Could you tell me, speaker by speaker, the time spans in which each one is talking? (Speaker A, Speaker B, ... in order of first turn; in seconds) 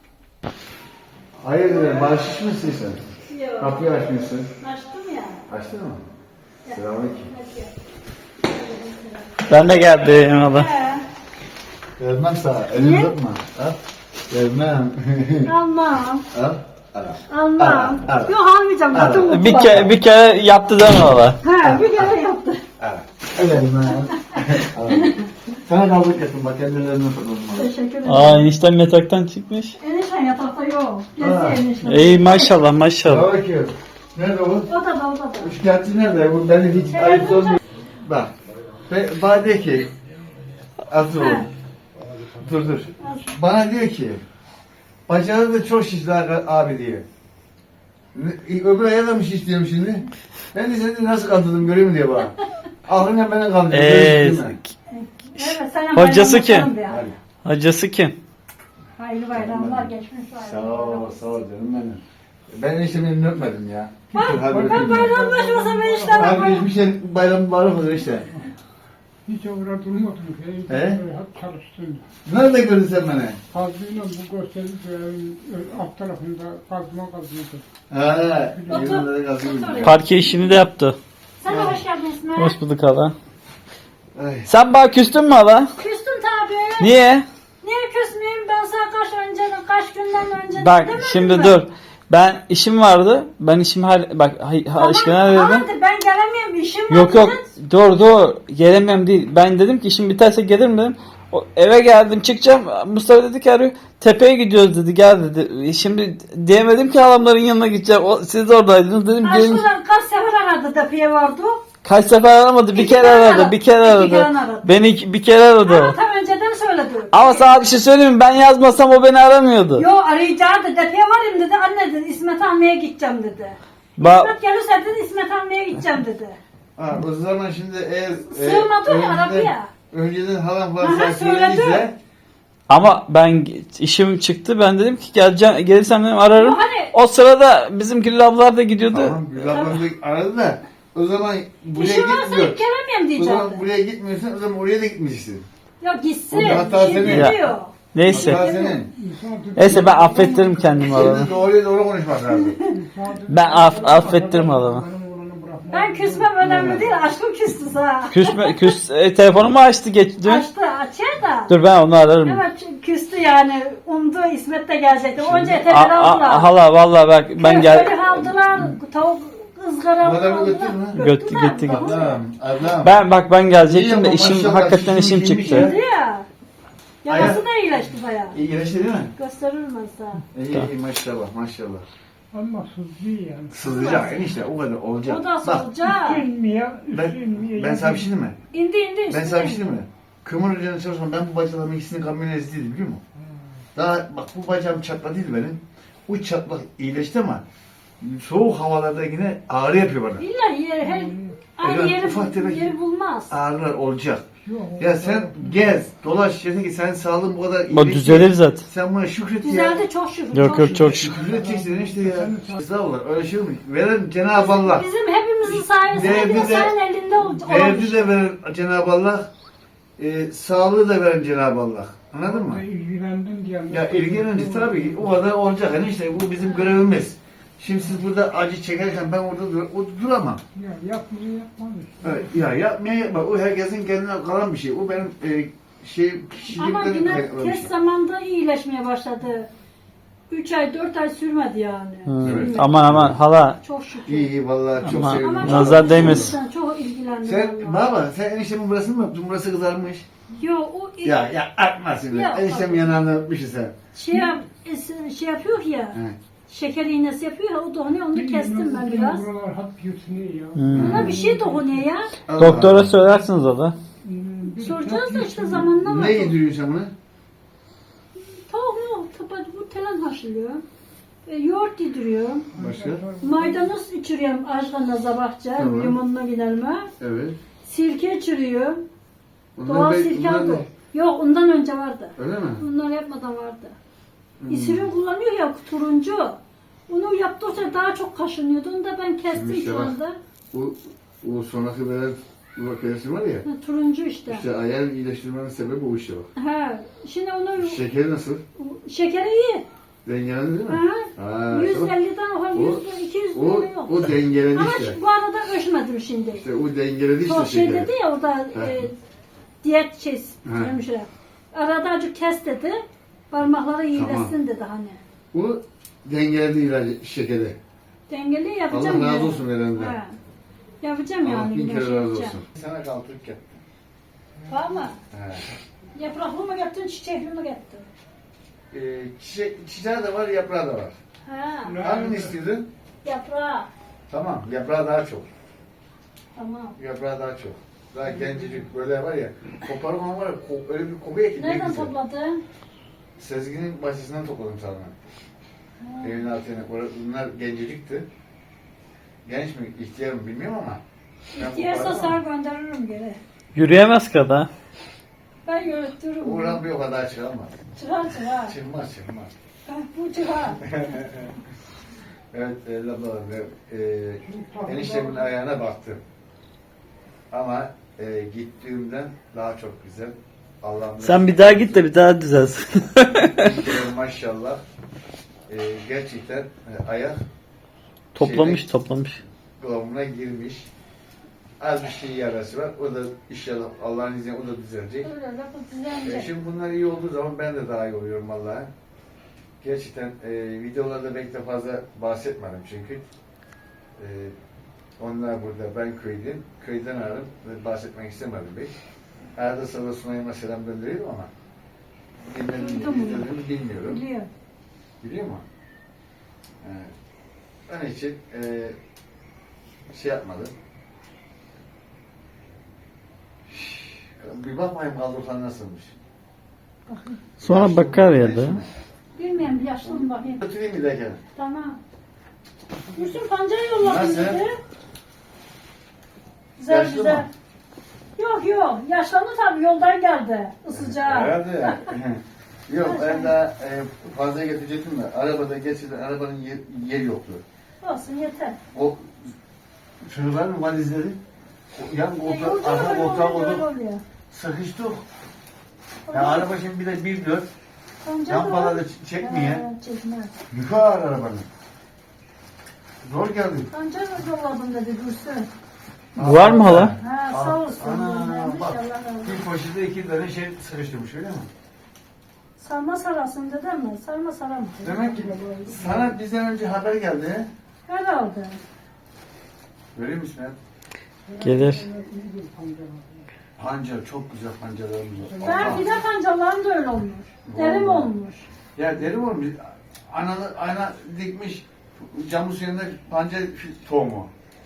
Speaker A: 1.4-3.0, 3.6-4.5, 5.5-6.0, 6.7-7.3, 12.0-13.8, 14.3-15.5, 16.3-18.3, 18.9-19.9, 21.6-22.2, 22.8-27.7, 31.2-31.6, 33.1-34.7, 35.4-38.3, 38.9-39.9, 40.9-41.5, 42.4-44.2, 45.1-47.1, 48.1-52.4, 52.9-54.6, 56.9-57.2, 59.3-65.1, 66.2-68.3, 70.7-71.0, 72.2-73.4, 77.9-80.0, 81.5-81.8, 84.2-84.5, 126.8-132.0, 138.9-142.6, 143.2-145.5, 146.3-147.5, 148.1-148.9, 150.8-152.6, 156.4-156.9, 165.2-165.6, 168.1-168.7, 170.0-171.0, 171.6-173.0, 173.7-175.8, 177.1-177.4, 178.3-179.1, 180.3-181.8, 183.5-185.7, 186.9-188.4, 189.1-193.0, 193.8-197.4, 198.0-200.2, 201.6-202.8, 203.3-204.2, 204.8-209.8, 210.8-214.9, 215.5-216.7, 217.3-219.3, 220.0-222.6, 223.7-230.4, 232.0-237.7, 242.2-243.2, 244.1-246.4, 247.2-250.1, 251.0-253.7, 260.7-261.1, 262.3-263.0, 265.8-266.9, 272.6-273.1, 275.6-276.0, 277.0-277.4, 279.6-280.7, 282.2-282.6, 284.4-284.9, 289.3-290.0, 290.5-293.5, 294.3-296.3, 297.6-298.4, 300.1-301.9, 302.5-305.0, 306.4-307.9, 308.5-308.9, 310.4-310.7, 313.9-314.3, 315.3-317.6, 318.7-320.0, 321.2-323.6, 325.1-325.4, 328.7-330.9, 331.8-332.7, 334.1-335.3, 336.8-341.9, 343.2-345.0, 346.0-348.1, 349.2-350.8, 351.4-352.2, 356.2-357.6, 358.3-359.3, 360.6-361.3, 362.3-366.0, 367.3-371.9, 373.4-374.6, 375.5-377.2, 378.1-378.7, 379.6-380.7, 381.6-385.1, 386.0-388.7, 389.6-393.1, 394.0-394.3, 395.0-398.7, 399.4-401.3, 402.3-404.0, 405.0-405.4, 406.6-406.9, 407.7-408.8, 409.9-410.5, 413.5-416.0, 417.4-418.7, 419.8-421.2, 423.8-424.4, 426.7-427.3, 430.7-437.4, 438.7-439.3, 440.0-441.2, 441.8-443.6, 444.3-445.1, 446.1-447.5, 448.3-449.6, 450.5-451.5, 453.0-453.7, 456.2-461.5, 464.8-467.5, 469.9-470.6, 473.6-475.9, 477.5-478.1, 478.8-484.3
Speaker B: 1.6-2.2, 3.3-3.8, 4.6-5.4, 6.6-7.7, 8.4-9.5, 10.4-11.1, 12.8-13.1, 15.4-16.3, 17.3-19.9, 21.4-22.6, 23.9-25.2, 27.6-28.5, 29.8-32.6, 34.7-35.5, 36.9-37.6, 41.2-41.5, 43.0-43.3, 54.9-57.1, 59.0-61.3, 64.2-66.7, 78.7-80.5, 81.4-82.6, 85.8-86.9, 87.6-91.6, 94.8-97.5, 109.2-111.6, 112.7-114.8, 115.6-117.6, 119.8-126.4, 128.2-129.7, 130.8-131.8, 136.3-136.9, 141.8-143.6, 145.8-148.8, 152.3-152.7, 155.7-158.7, 160.2-161.6, 162.2-166.5, 167.4-172.2, 175.5-176.3, 177.0-178.4, 179.2-180.2, 183.6-184.2, 185.1-186.2, 188.5-189.8, 200.2-203.4, 209.4-211.0, 214.3-218.1, 236.5-239.5, 240.3-242.9, 243.6-244.3, 245.0-247.9, 250.4-251.3, 252.1-253.0, 253.9-259.3, 260.7-262.1, 264.6-266.4, 268.2-270.6, 271.3-272.5, 273.2-276.9, 277.6-278.8, 279.6-283.8, 284.5-290.2, 293.4-294.4, 296.4-297.8, 298.6-299.7, 300.7-304.0, 304.5-306.4, 307.2-309.0, 309.6-315.0, 318.1-320.2, 320.8-322.4, 324.5-324.9, 325.9-327.9, 331.2-331.8, 333.0-333.7, 336.3-336.8, 341.4-342.4, 345.8-346.3, 351.3-353.2, 355.4-356.6, 357.8-358.5, 359.7-360.6, 385.0-386.3, 402.5-404.3, 416.9-417.2, 419.2-420.4, 421.4-421.8, 422.9-424.6, 426.6-427.3, 428.2-431.9, 432.8-433.4, 437.8-438.6, 442.2-444.0, 446.1-446.5, 448.0-450.3, 453.7-455.5, 457.0-459.4, 462.6-464.8, 467.9-468.6, 475.4-478.5
Speaker C: 9.5-10.7, 19.3-21.4, 28.1-29.8, 31.8-33.3, 53.7-54.7, 55.4-56.7, 57.4-58.2, 79.8-81.0, 82.4-83.2, 84.5-85.7, 86.8-87.3, 90.6-95.7, 96.9-109.7, 111.8-116.0, 117.1-119.9, 124.0-124.3, 132.7-139.8, 147.0-147.4, 147.9-148.4, 149.6-151.3, 153.3-154.9, 158.1-160.4, 161.5-162.4, 165.7-168.0, 171.0-172.0, 172.8-175.7, 207.7-208.7, 210.3-211.1, 242.1-243.6, 244.8-246.3, 260.6-261.1, 262.4-263.8, 353.6-354.5, 371.0-373.6, 378.1-379.2, 417.4-418.6, 456.2-456.9, 471.4-471.9
Speaker D: 64.1-66.6, 69.3-72.1, 73.5-77.7, 78.5-79.0, 148.9-151.4, 152.7-156.8, 182.3-184.0, 185.8-188.1, 193.2-193.4, 200.8-201.4, 204.4-205.8, 210.5-212.6, 216.0-216.7, 222.2-225.2, 230.6-232.4, 254.1-254.4, 258.1-261.9, 264.0-265.8, 272.5-273.7, 324.4-324.8, 331.6-332.4, 338.1-338.6, 364.2-365.3, 464.8-466.2, 471.2-473.3, 475.2-475.9